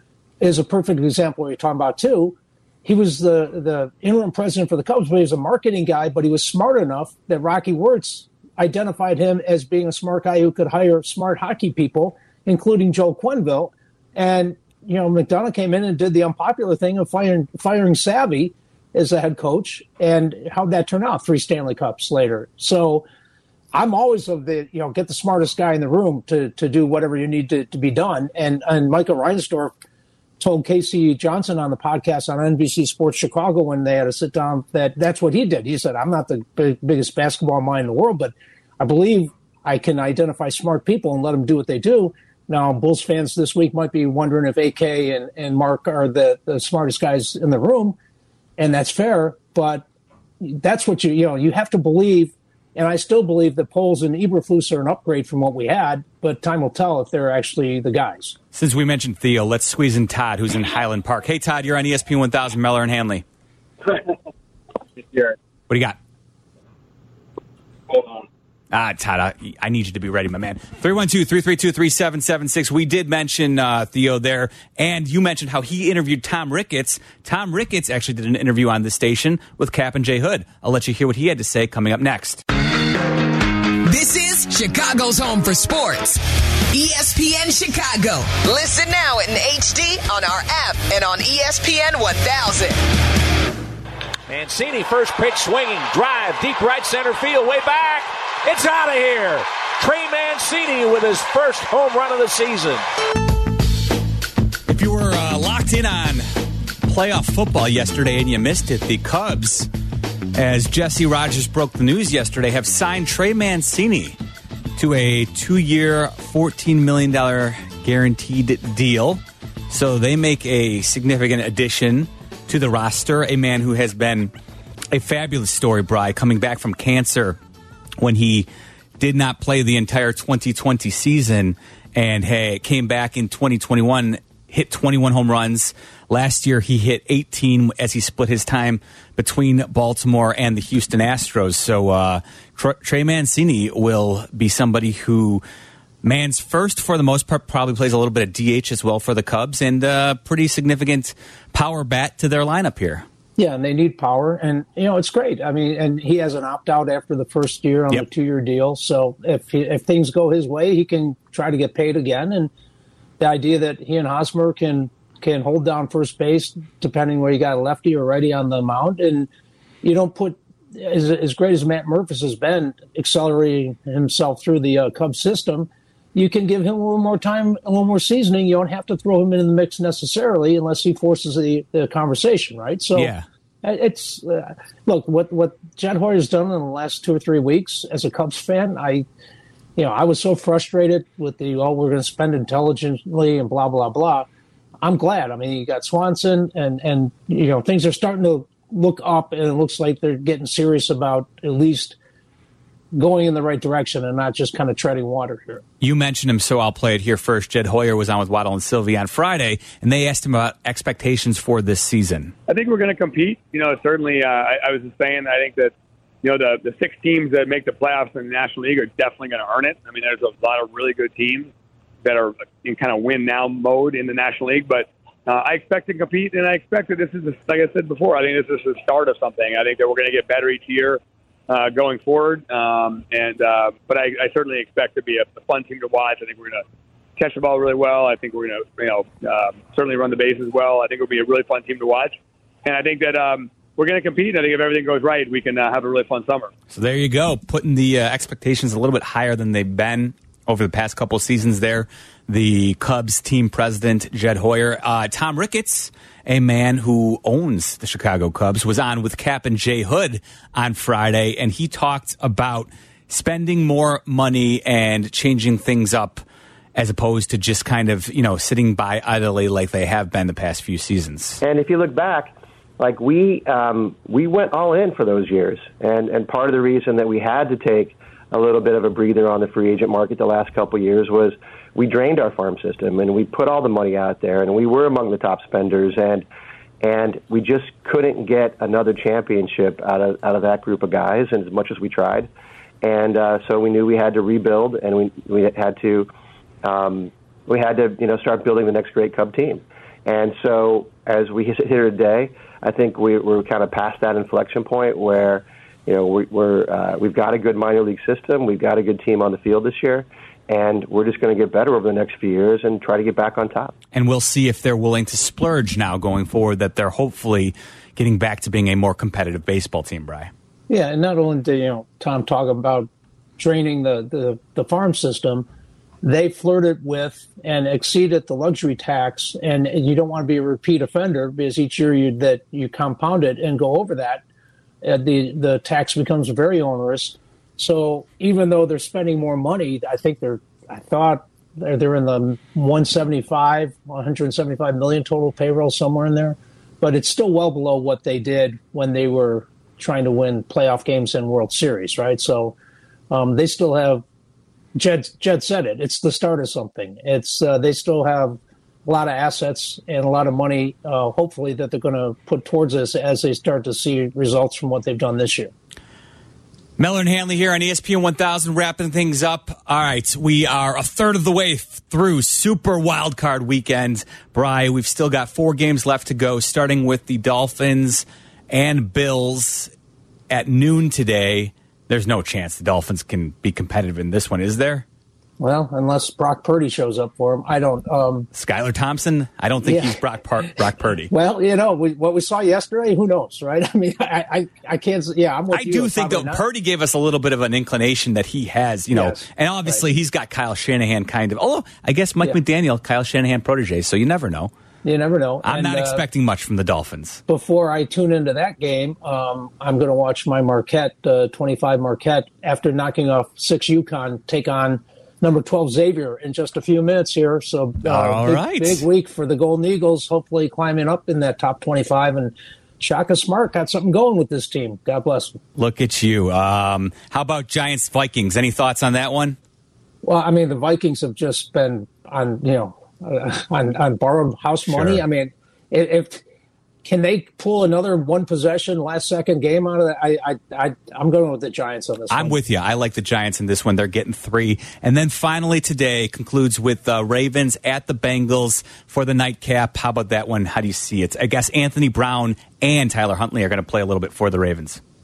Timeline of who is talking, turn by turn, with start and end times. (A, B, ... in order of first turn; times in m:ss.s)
0:00.4-0:23.0 A
0:23.7-0:29.7 A
0:30.4-0:48.0 A
0:48.6-0:49.8 A
0:50.4-0:58.4 A
0:58.5-1:03.2 B
1:05.7-1:06.0 B
1:08.7-1:22.4 B
1:23.8-1:32.8 C
1:34.3-1:42.8 D
1:44.7-1:46.2 B
1:46.8-1:49.7 B
1:50.3-1:54.2 B
1:54.8-2:04.3 B
2:04.9-2:07.4 B
2:08.0-2:08.5 B
2:09.0-2:25.4 B
2:26.0-2:33.0 B
2:33.4-2:42.5 A
2:43.2-2:49.3 A
2:49.8-3:03.1 A
3:02.9-3:03.2 B
3:03.6-3:09.0 A
3:09.8-3:14.3 A
3:14.8-3:22.0 A
3:22.9-3:25.6 A
3:25.8-3:32.3 B
3:32.5-3:35.7 E
3:36.2-3:41.5 E
3:42.0-3:51.0 E
3:51.5-3:56.6 E
3:57.2-4:02.1 E
4:02.6-4:06.5 E
4:06.7-4:26.2 B
4:26.7-4:31.4 B
4:31.4-4:46.2 F
4:46.8-4:52.3 F
4:52.8-4:56.1 F
4:56.6-5:13.7 F
5:13.9-5:20.3 B
5:20.7-5:25.4 A
5:26.0-5:34.2 A
5:34.8-5:52.5 A
5:53.1-5:54.0 A
5:54.7-6:05.5 A
6:06.8-6:19.7 B
6:20.3-6:24.8 B
6:25.4-6:28.3 A
6:28.3-6:31.1 B
6:29.6-6:30.0 A
6:31.1-6:36.4 A
6:35.5-6:44.5 B
6:38.9-6:39.9 A
6:44.8-6:46.0 A
6:45.4-6:47.2 B
6:47.3-7:05.4 A
6:57.8-6:58.8 B
7:05.6-7:09.4 B
7:10.0-7:16.2 A
7:14.7-7:15.0 B
7:16.8-7:22.4 A
7:22.1-7:34.8 B